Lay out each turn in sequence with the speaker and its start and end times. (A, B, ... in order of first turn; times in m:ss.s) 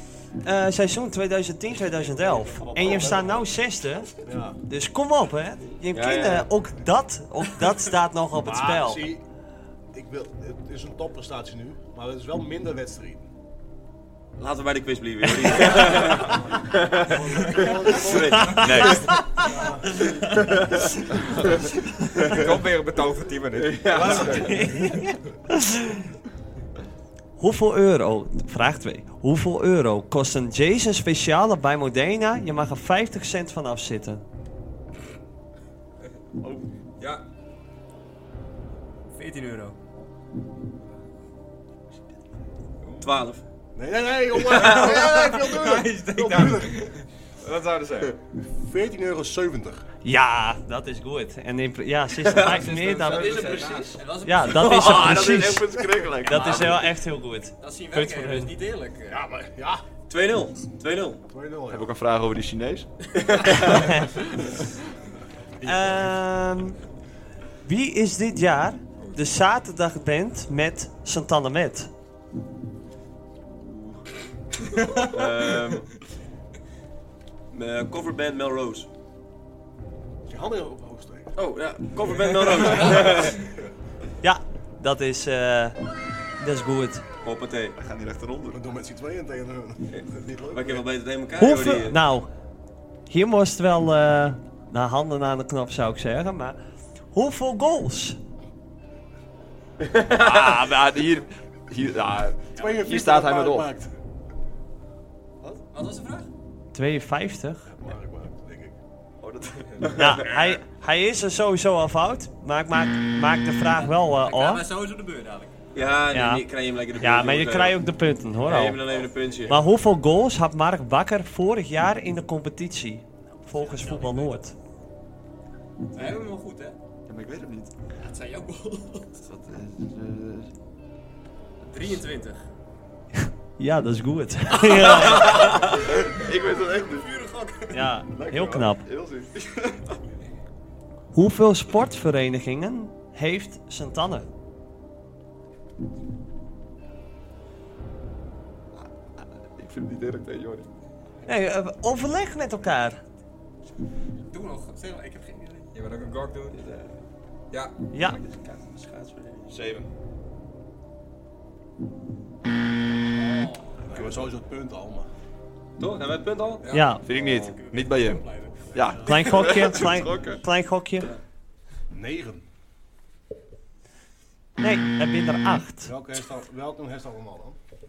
0:00.4-0:09.1 A
0:02.6-0:03.4 B
0:04.2-0:04.6 B
0:05.9-0:06.5 C
0:08.4-0:09.2 B
0:09.9-0:13.3 B
0:14.4-0:19.0 C
0:16.0-0:20.3 B
0:18.2-0:20.1 A
0:18.6-0:19.2 D
0:20.3-0:20.7 C
0:22.2-0:22.6 C
0:22.3-0:24.8 E
0:23.6-0:24.5 C
0:24.2-0:26.0 A
0:27.4-0:34.2 A
0:39.1-0:39.8 F
0:43.0-0:43.4 C
0:43.8-0:47.0 B
0:44.5-0:44.9 C
0:44.6-0:48.2 E
0:48.4-0:49.9 B
0:50.0-0:53.5 A
0:52.2-0:52.6 C
0:52.3-0:54.0 E
0:53.1-0:55.1 F
0:53.3-0:54.0 C
0:54.2-0:58.5 A
0:54.5-0:56.9 D
0:56.3-0:56.7 F
0:57.6-0:59.2 F
0:59.1-0:59.8 B
1:00.1-1:01.2 C
1:01.3-1:01.9 B
1:01.7-1:02.9 D
1:03.2-1:03.9 C
1:03.8-1:04.1 A
1:05.6-1:06.2 B
1:05.6-1:06.8 A
1:07.6-1:11.9 A
1:13.5-1:14.0 C
1:14.7-1:16.0 C
1:17.5-1:18.9 C
1:20.3-1:21.3 B
1:21.4-1:23.5 C
1:24.2-1:25.8 A
1:26.4-1:27.0 A
1:27.2-1:27.8 C
1:27.8-1:28.6 D
1:28.5-1:30.9 B
1:29.9-1:32.0 C
1:31.4-1:32.3 A
1:33.1-1:36.6 A
1:37.1-1:38.2 A
1:39.9-1:40.6 C
1:40.1-1:43.7 D
1:42.6-1:42.8 F
1:42.6-1:43.9 B
1:45.7-1:46.3 F
1:46.7-1:47.7 A
1:47.6-1:48.8 B
1:49.2-1:50.2 D
1:50.0-1:54.6 A
1:53.7-1:55.6 F
1:55.7-1:57.8 C
1:56.1-1:56.4 A
1:57.0-1:58.8 A
1:58.4-1:59.6 C
1:59.5-2:04.6 A
2:03.6-2:04.3 F
2:05.9-2:06.8 F
2:07.1-2:07.7 D
2:08.0-2:09.2 F
2:09.3-2:10.5 D
2:11.7-2:12.4 F
2:13.2-2:15.5 A
2:14.8-2:16.0 F
2:15.1-2:17.2 D
2:16.5-2:17.8 F
2:17.7-2:18.8 A
2:18.1-2:20.0 D
2:21.1-2:24.3 A
2:28.8-2:30.7 D
2:31.3-2:33.0 A
2:34.3-2:35.7 F
2:35.7-2:36.6 E
2:36.5-2:37.0 C
2:37.5-2:38.2 E
2:37.9-2:38.2 A
2:38.2-2:39.6 C
2:39.5-2:39.9 D
2:43.1-2:43.9 F
2:43.8-2:45.1 B
2:45.8-2:46.7 C
2:46.6-2:47.0 E
2:46.7-2:47.0 A
2:47.0-2:50.4 D
2:47.1-2:49.1 F
2:47.2-2:47.5 C
2:48.8-2:49.6 B
2:49.1-2:51.1 A
2:51.9-2:52.4 B
2:54.6-2:55.9 A
2:55.8-2:57.6 B